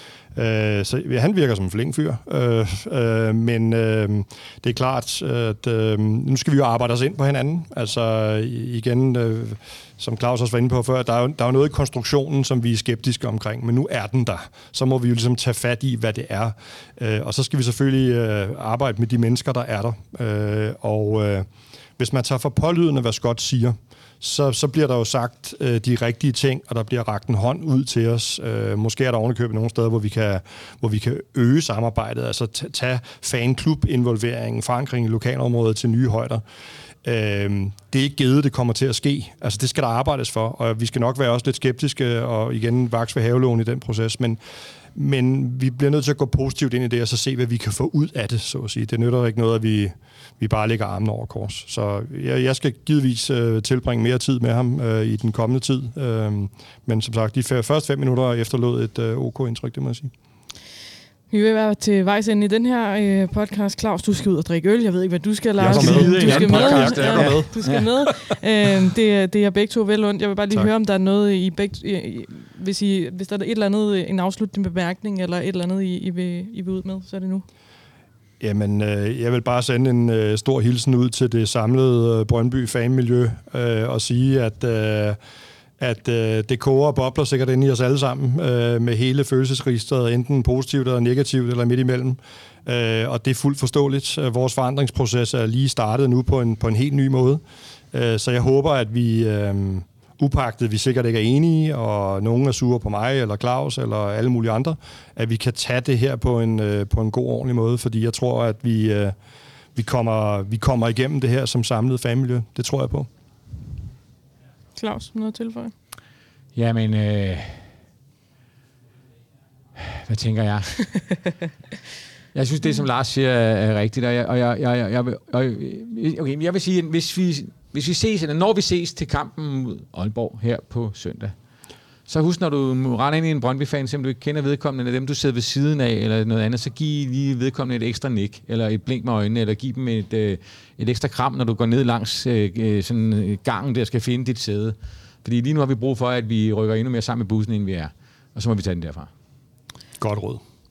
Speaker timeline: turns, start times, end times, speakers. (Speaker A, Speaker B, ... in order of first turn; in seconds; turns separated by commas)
Speaker A: 0.3-21.5, Speaker A: 22.0-36.4, Speaker A: 37.0-44.4, Speaker A: 44.9-60.1, Speaker B: 61.3-77.4, Speaker A: 65.6-68.1, Speaker C: 65.6-67.9, Speaker A: 78.4-85.2, Speaker A: 85.8-97.4, Speaker A: 97.9-109.2, Speaker A: 109.8-113.1, Speaker B: 114.8-115.7, Speaker C: 116.5-117.7, Speaker C: 119.8-121.1, Speaker C: 122.3-131.3, Speaker C: 132.1-149.1, Speaker A: 150.0-150.4